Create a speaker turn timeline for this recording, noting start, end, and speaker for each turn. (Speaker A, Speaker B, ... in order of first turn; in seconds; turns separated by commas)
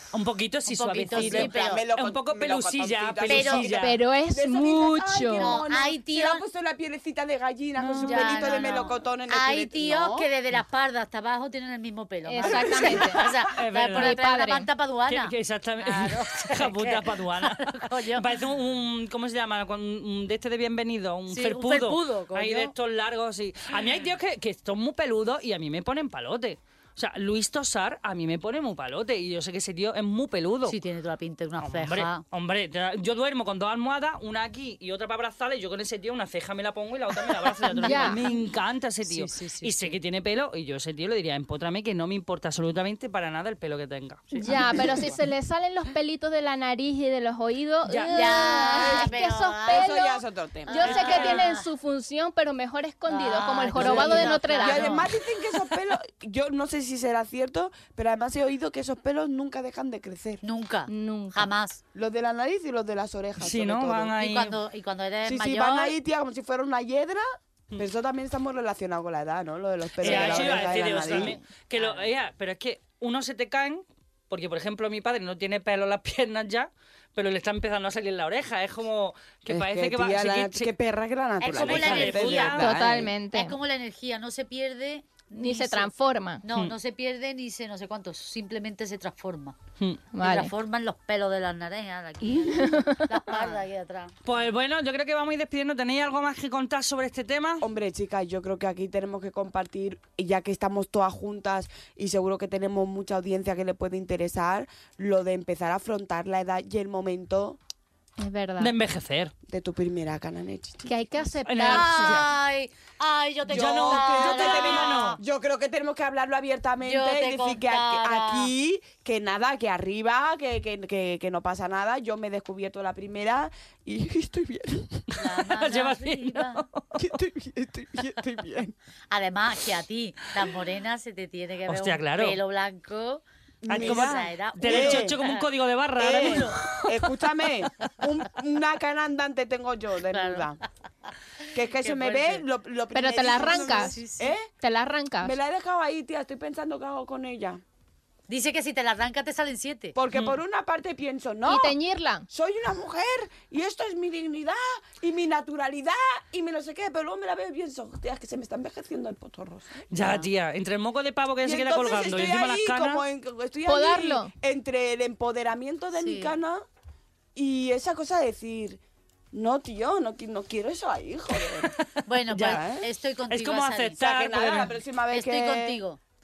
Speaker A: 0.1-4.0, Speaker B: 0.7-1.8, Speaker C: 1.1-10.3, Speaker B: 3.3-3.9, Speaker D: 3.8-5.6, Speaker B: 5.4-6.4, Speaker B: 7.8-18.3, Speaker D: 8.2-8.8, Speaker D: 12.2-13.2, Speaker C: 12.4-13.3, Speaker A: 13.5-14.2, Speaker D: 13.9-14.7, Speaker A: 15.1-30.8, Speaker B: 21.3-22.7, Speaker B: 30.6-32.2, Speaker A: 31.6-44.5, Speaker B: 37.7-38.4, Speaker D: 37.8-38.3, Speaker B: 39.0-40.0, Speaker B: 44.3-44.8, Speaker D: 44.4-55.0, Speaker C: 44.7-45.1, Speaker A: 47.9-48.5, Speaker B: 48.1-50.0, Speaker C: 48.7-51.2, Speaker B: 50.6-51.7, Speaker A: 50.8-51.5, Speaker B: 53.1-55.1, Speaker C: 53.7-60.4, Speaker B: 60.4-61.8, Speaker D: 60.9-61.5, Speaker C: 61.9-64.2, Speaker A: 63.4-64.6, Speaker B: 64.2-65.9, Speaker C: 65.2-67.2, Speaker C: 67.7-71.4, Speaker A: 70.0-80.7, Speaker B: 70.0-72.0, Speaker C: 79.5-83.1, Speaker B: 81.4-82.6, Speaker A: 81.5-82.7, Speaker D: 82.5-83.5, Speaker B: 83.3-85.9, Speaker D: 85.3-86.4, Speaker B: 86.4-89.5, Speaker D: 90.1-90.5, Speaker B: 90.2-94.1, Speaker D: 92.4-93.2, Speaker A: 93.3-93.6, Speaker A: 94.2-97.6, Speaker C: 97.6-107.6, Speaker D: 108.2-108.7, Speaker A: 108.6-109.3, Speaker C: 109.5-110.9, Speaker D: 110.9-112.2, Speaker A: 111.5-112.3, Speaker B: 111.7-115.2, Speaker A: 113.5-115.2, Speaker C: 113.5-125.0, Speaker B: 116.8-118.5, Speaker A: 125.1-126.9, Speaker B: 125.2-126.6, Speaker C: 126.9-128.7, Speaker B: 129.1-135.4, Speaker A: 131.7-132.4, Speaker C: 133.6-135.2, Speaker A: 133.7-137.0, Speaker C: 136.0-140.6, Speaker B: 136.2-136.6, Speaker B: 140.1-140.6, Speaker C: 141.5-144.5, Speaker B: 141.6-142.4, Speaker D: 142.9-143.9, Speaker B: 143.3-144.3, Speaker D: 144.6-145.4, Speaker C: 145.2-147.6, Speaker B: 148.3-149.9, Speaker C: 149.9-151.8, Speaker A: 150.1-150.4, Speaker D: 151.4-152.3, Speaker C: 152.3-160.3, Speaker A: 159.9-163.0, Speaker C: 161.4-166.6, Speaker D: 163.7-164.3, Speaker B: 166.0-166.4, Speaker C: 167.3-168.8, Speaker C: 169.3-171.7, Speaker B: 172.1-174.0, Speaker A: 172.3-172.6, Speaker C: 172.4-172.8, Speaker A: 173.3-174.8, Speaker C: 174.0-175.8, Speaker B: 175.1-176.0